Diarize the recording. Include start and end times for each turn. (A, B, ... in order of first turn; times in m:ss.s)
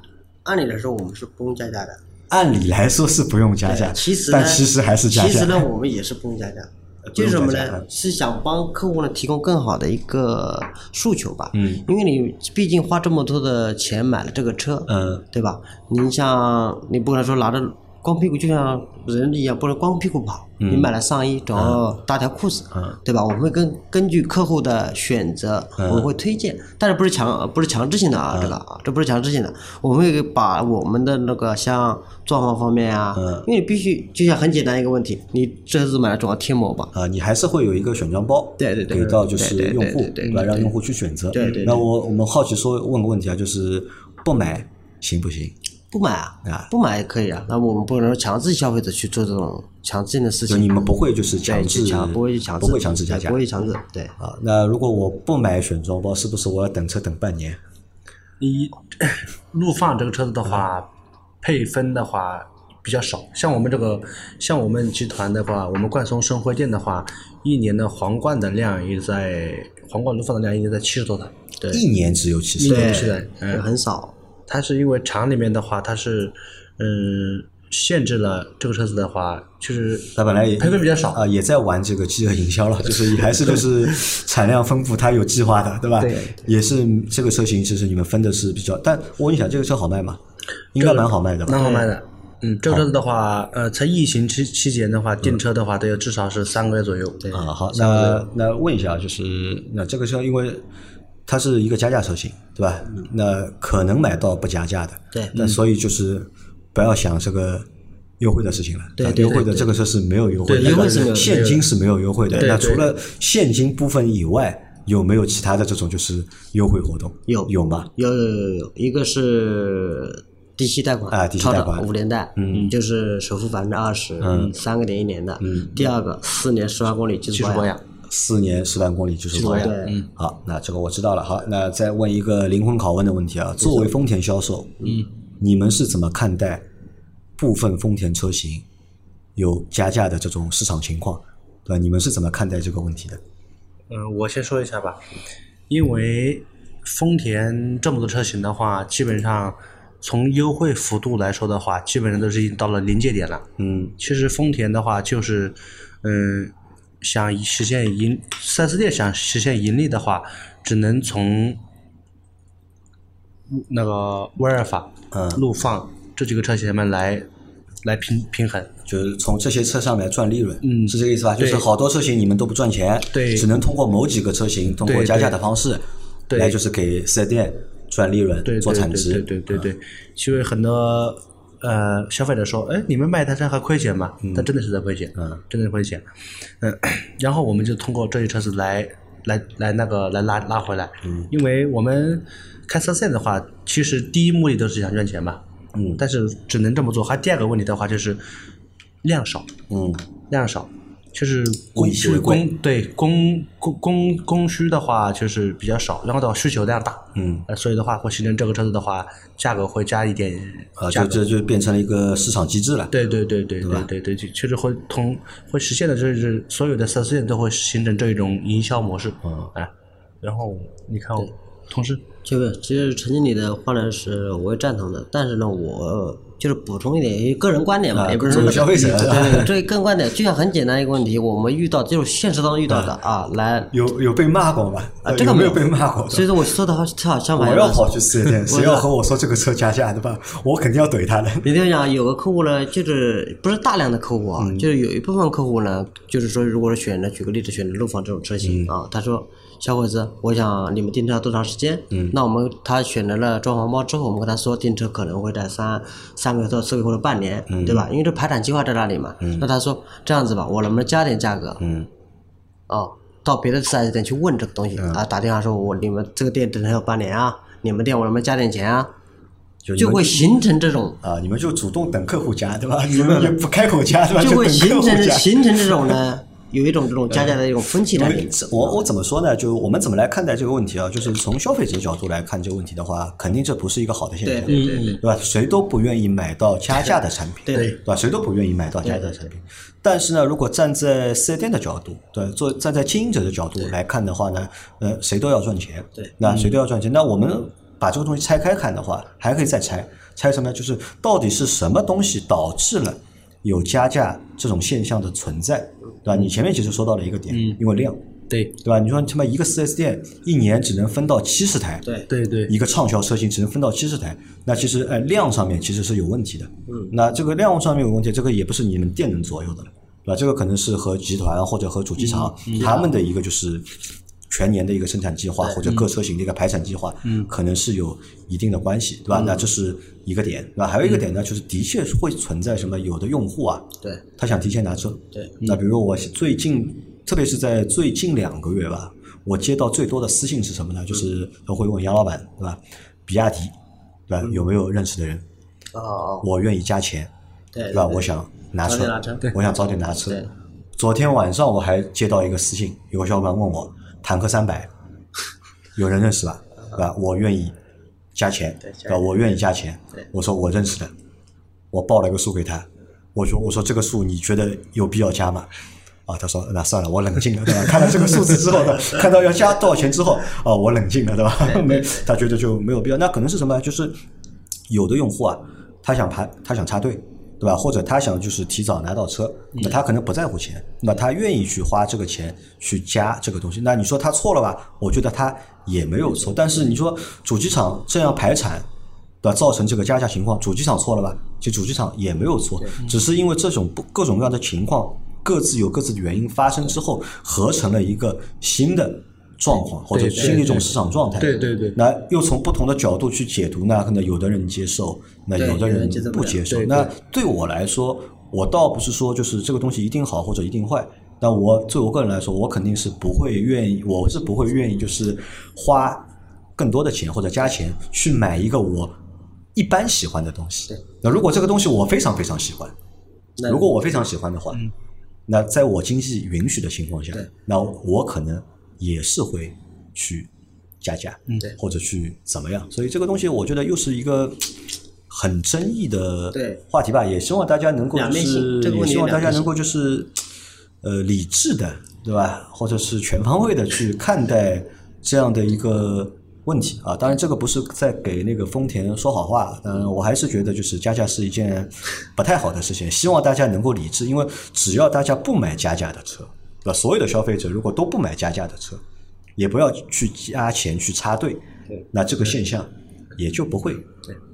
0:00.4-0:02.0 A
0:02.3-0:05.7 B
0:03.7-0:36.9 A
0:07.1-0:07.9 B
0:11.5-0:11.8 B
0:14.9-0:15.2 B
0:20.6-0:20.9 B
0:21.6-0:21.8 B
0:25.8-0:26.1 B
0:28.3-0:28.6 B
0:33.2-0:33.5 B
0:36.9-0:45.6 B
0:38.6-0:40.7 A
0:41.3-0:41.8 A
0:41.4-0:41.8 C
0:45.9-0:50.9 A
0:46.4-0:46.7 B
0:50.5-0:53.4 B
0:51.5-0:54.2 A
0:54.2-0:57.6 B
0:58.4-1:00.9 C
1:01.4-1:11.3 C
1:11.7-1:13.1 B
1:12.6-1:14.1 A
1:12.6-1:13.6 C
1:14.5-1:21.2 C
1:20.2-1:30.2 B
1:26.0-1:26.3 C
1:30.8-1:31.7 B
1:30.8-1:37.2 C
1:31.6-1:31.9 A
1:37.3-1:40.6 B
1:41.3-1:47.7 B
1:48.2-1:57.9 B
1:49.0-1:49.7 A
1:50.5-1:51.6 C
1:50.5-1:51.6 A
1:52.4-1:52.9 C
1:57.3-2:07.7 A
2:01.1-2:02.7 B
2:04.2-2:04.6 B
2:05.4-2:05.9 B
2:07.3-2:07.8 C
2:08.1-2:16.6 B
2:09.4-2:10.1 C
2:09.4-2:10.0 A
2:13.6-2:13.9 A
2:17.4-2:18.6 B
2:19.4-2:23.2 B
2:23.9-2:25.0 C
2:25.7-2:33.5 C
2:33.6-2:34.0 B
2:34.0-2:41.6 C
2:43.5-2:47.3 C
2:45.1-2:45.4 B
2:47.8-2:48.7 C
2:48.9-2:55.8 B
2:50.6-2:51.7 C
2:53.1-2:53.5 C
2:54.8-2:55.4 C
2:56.3-2:56.6 C
2:56.3-2:59.7 B
2:58.4-3:06.0 C
3:04.2-3:04.5 B
3:05.2-3:05.4 B
3:06.6-3:15.4 C
3:11.0-3:11.3 B
3:15.7-3:16.0 B
3:16.0-3:18.2 C
3:19.0-3:19.5 C
3:19.7-3:20.0 B
3:20.3-3:31.3 C
3:21.8-3:22.5 B
3:27.2-3:27.5 B
3:30.8-3:32.9 B
3:32.9-3:39.7 C
3:33.6-3:33.9 B
3:39.2-3:39.5 B
3:40.2-3:42.0 C
3:42.2-3:53.7 A
3:47.9-3:49.5 B
3:48.3-3:49.2 C
3:53.7-3:56.4 B
3:55.0-3:58.9 A
3:57.4-4:01.5 B
4:01.4-4:21.6 A
4:04.4-4:04.7 B
4:08.4-4:08.7 B
4:11.9-4:12.2 B
4:17.5-4:17.9 B
4:19.2-4:19.5 B
4:21.6-4:21.9 B
4:22.7-4:28.9 A
4:29.6-4:30.3 B
4:29.8-4:31.0 A
4:31.0-4:36.0 B
4:33.0-4:33.3 A
4:34.2-4:38.8 A
4:37.1-5:08.0 B
4:44.2-4:45.0 A
4:44.5-4:45.0 C
4:47.5-4:47.8 A
4:48.8-4:49.3 A
4:56.2-4:56.6 C
5:07.3-5:07.6 C
5:08.3-5:08.6 C
5:08.6-5:11.8 B
5:12.1-5:12.5 C
5:12.5-5:23.7 B
5:16.7-5:16.9 A
5:22.0-5:22.7 C
5:22.6-5:22.9 A
5:24.3-5:43.5 B
5:27.0-5:27.3 C
5:44.1-5:45.2 B
5:45.7-5:46.3 A
5:46.2-5:47.1 B
5:47.5-5:48.1 A
5:47.7-5:54.7 B
5:48.6-5:49.3 A
5:55.8-5:57.6 B
5:58.2-6:00.9 B
5:58.6-5:59.0 A
6:01.7-6:05.5 B
6:06.1-6:14.0 B
6:11.5-6:12.0 A
6:14.7-6:28.7 B
6:29.2-6:59.0 B
6:39.9-6:41.8 C
6:45.4-6:46.4 A
6:46.5-6:46.9 C
6:59.6-7:02.7 B
7:03.4-7:03.7 A
7:03.4-7:04.6 B
7:05.3-7:10.3 B
7:10.8-7:20.2 B
7:16.3-7:16.6 A
7:18.0-7:19.5 A
7:20.8-7:38.8 B
7:39.4-7:43.9 B